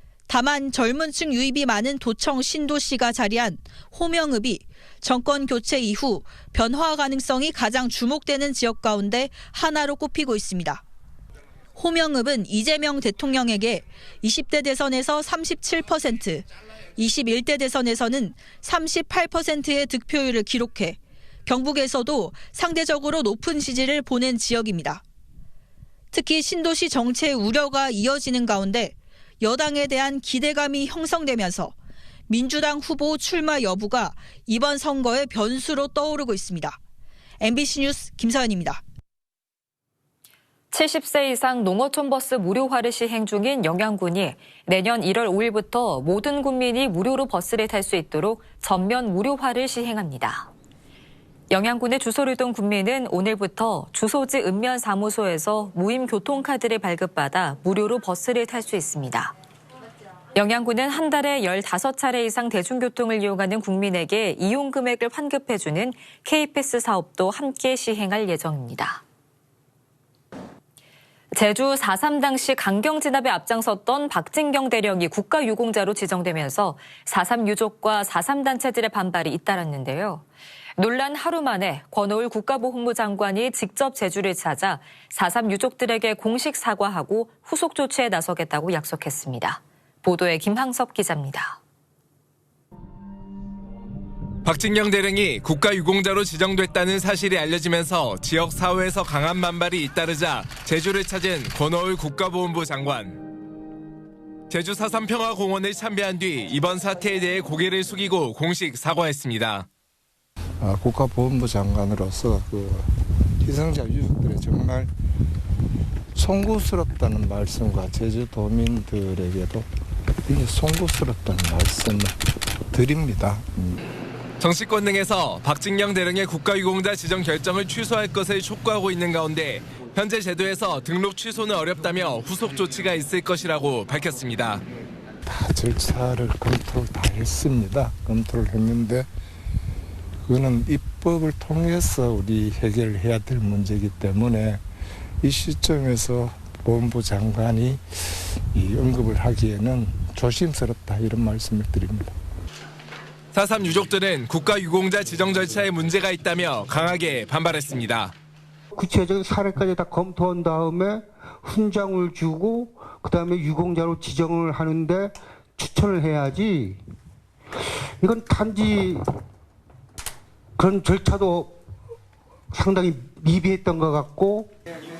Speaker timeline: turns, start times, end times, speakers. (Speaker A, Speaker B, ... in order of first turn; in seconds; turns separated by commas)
Speaker A: 0.3-10.8, Speaker A: 11.8-16.4, Speaker A: 17.0-25.0, Speaker A: 26.1-31.7, Speaker A: 32.3-36.8, Speaker A: 37.4-38.8, Speaker B: 40.7-50.5, Speaker B: 51.5-59.4, Speaker B: 60.3-69.0, Speaker B: 71.3-80.2, Speaker B: 80.8-91.6, Speaker C: 94.4-103.2, Speaker C: 104.5-109.7, Speaker D: 110.6-114.9, Speaker D: 116.1-119.7, Speaker D: 120.2-123.8, Speaker C: 124.4-134.6, Speaker D: 135.2-139.1, Speaker D: 140.2-144.7, Speaker D: 145.2-152.2, Speaker C: 153.3-158.1, Speaker E: 158.8-166.8, Speaker E: 168.0-169.1, Speaker E: 170.6-171.6, Speaker E: 172.5-174.5